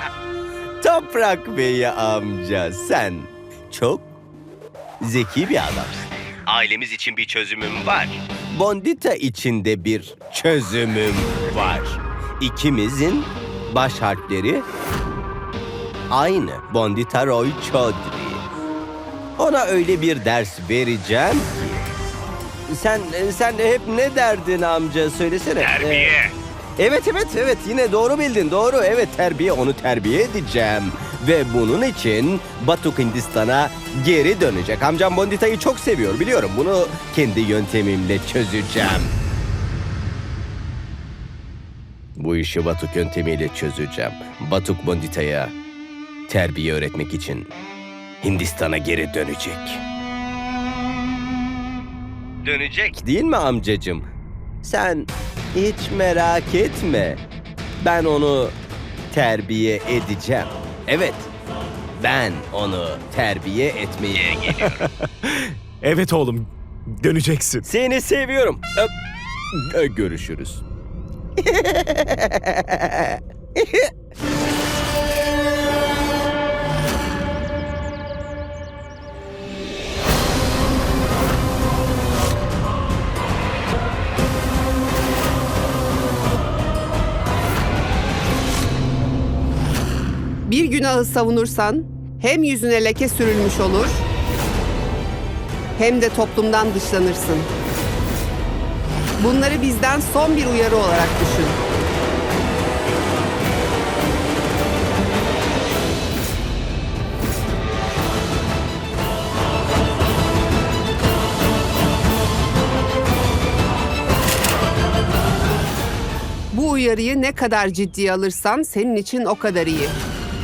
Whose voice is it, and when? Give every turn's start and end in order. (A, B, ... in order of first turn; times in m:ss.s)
0:00.8-0:04.1 A
0:05.0-0:14.7 A
0:16.1-0:18.4 A
0:19.4-0:21.9 A
0:22.7-0:26.1 A
0:25.6-0:26.3 B
0:26.8-0:39.1 A
0:42.2-0:45.5 A
0:46.3-0:47.5 A
0:48.2-0:49.8 A
0:52.4-0:54.1 A
0:54.6-0:57.2 A
0:57.8-0:58.6 A
0:59.1-1:01.3 A
1:02.0-1:04.9 A
1:04.7-1:07.7 B
1:07.6-1:08.9 A
1:09.5-1:10.6 A
1:11.4-1:13.8 A
1:30.5-1:34.0 C
1:35.8-1:37.5 C
1:39.2-1:41.6 C
1:56.5-2:00.0 C